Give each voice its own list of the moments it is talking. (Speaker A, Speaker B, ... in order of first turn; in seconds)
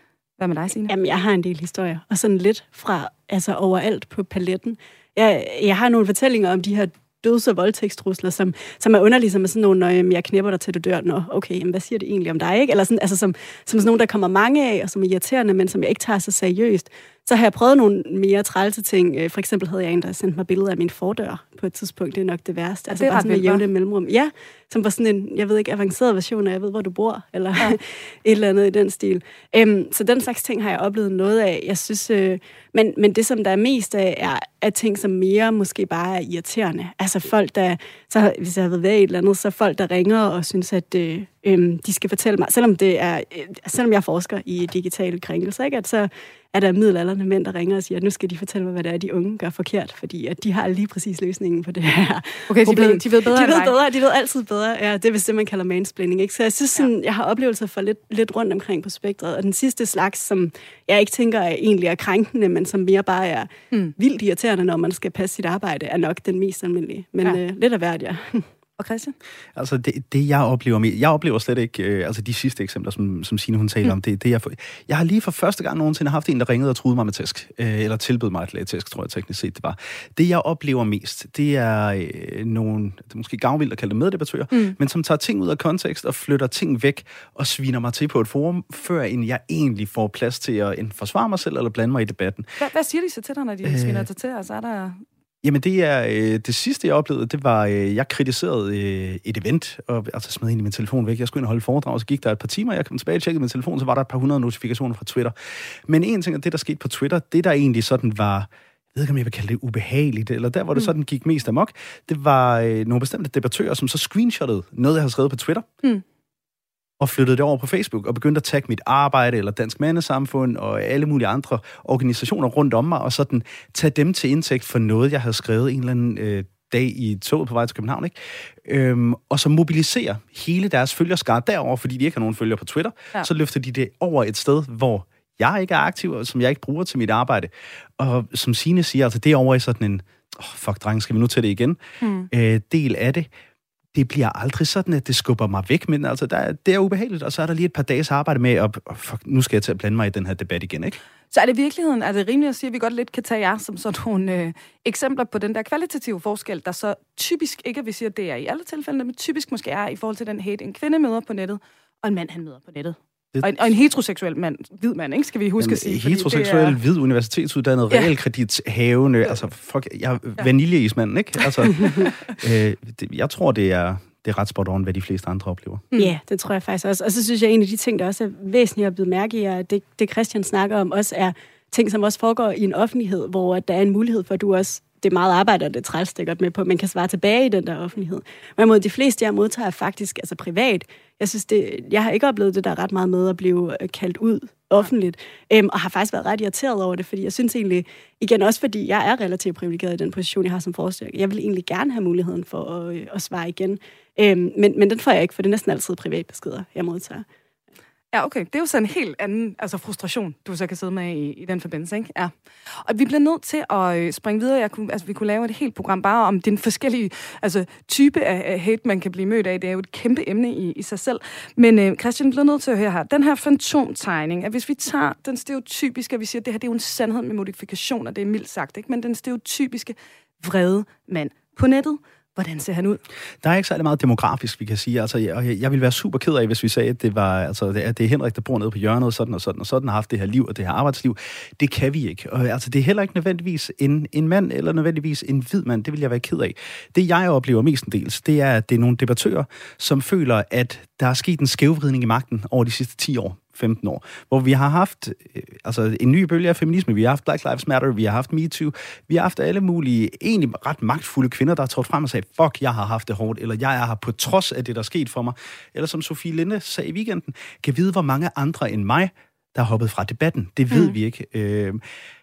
Speaker A: 0.4-0.9, 22.9-23.6, 52.5-53.8, 68.8-69.1, 92.6-95.0, 142.0-142.3, 151.3-166.8, 171.5-172.2, 208.1-233.0
Speaker B: 0.9-68.5, 176.0-207.2
Speaker C: 69.6-92.5, 93.6-94.1, 95.4-105.3, 105.9-115.7, 117.0-141.8, 142.3-143.3, 143.9-151.0, 165.6-175.9, 233.4-271.8